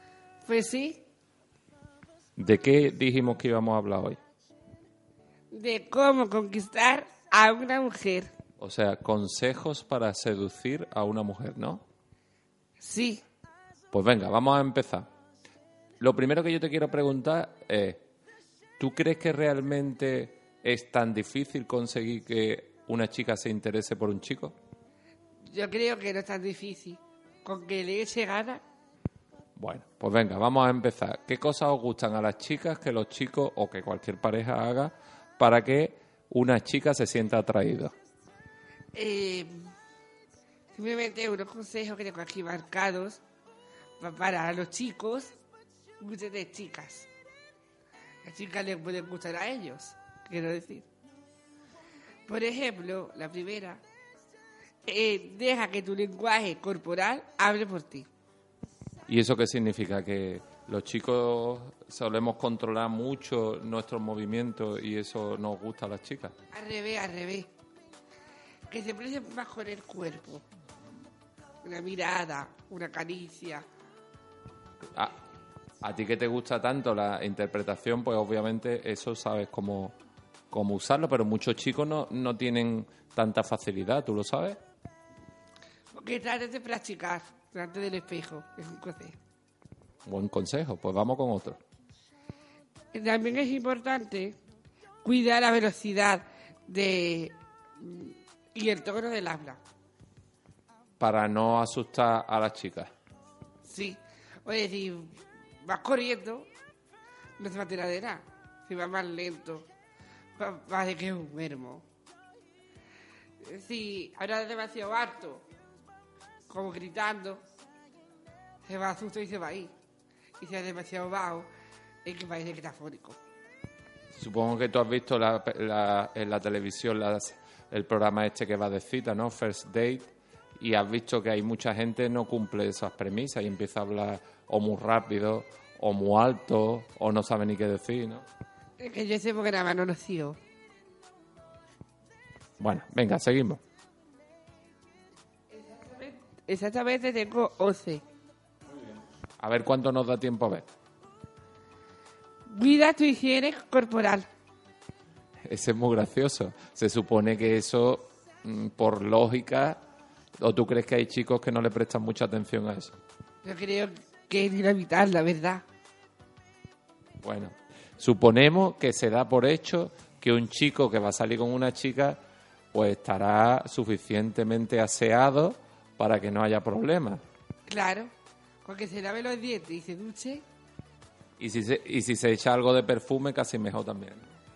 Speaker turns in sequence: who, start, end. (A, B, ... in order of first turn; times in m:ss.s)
0:00.4-0:01.0 A
0:02.4-0:04.2 B
0:05.5-0:08.3 A
0:08.6-0:11.8 B
0:12.8-0:13.2 A
0:13.9-0:15.1 B
0:16.0-0:18.1 B
0:18.8-0:24.6 B
0:25.5-0:28.6 A
0:29.6-0:37.9 B
0:38.9-0:39.7 A
0:40.7-0:43.2 A
0:44.0-0:45.4 A
0:46.0-0:47.1 A
0:48.2-0:50.9 A
0:52.3-0:53.8 A
0:54.8-0:58.1 A
0:59.1-1:06.4 B
1:06.5-1:07.5 A
1:08.7-1:10.4 A
1:11.6-1:13.7 A
1:15.8-1:20.0 B
1:20.5-1:24.6 B
1:25.9-1:29.2 A
1:30.0-1:31.6 B
1:32.9-1:34.4 A
1:35.0-1:39.6 A
1:41.0-1:42.9 B
1:43.6-1:46.5 A
1:47.4-1:49.7 A
1:50.4-1:51.9 A
1:53.4-1:55.4 A
1:56.5-1:57.4 A
1:58.6-1:59.7 A
2:00.4-2:01.5 A
2:02.0-2:03.2 A
2:04.1-2:18.3 B
2:18.8-2:20.4 A
2:22.6-2:23.6 B
2:25.5-2:28.0 A
2:29.4-2:30.7 B
2:32.5-2:34.3 A
2:35.5-2:39.8 B
2:40.4-2:43.0 B
2:43.4-2:45.6 A
2:47.2-2:52.2 B
2:52.7-2:57.2 B
2:57.7-2:58.1 A
2:58.6-3:00.4 A
3:01.4-3:04.3 B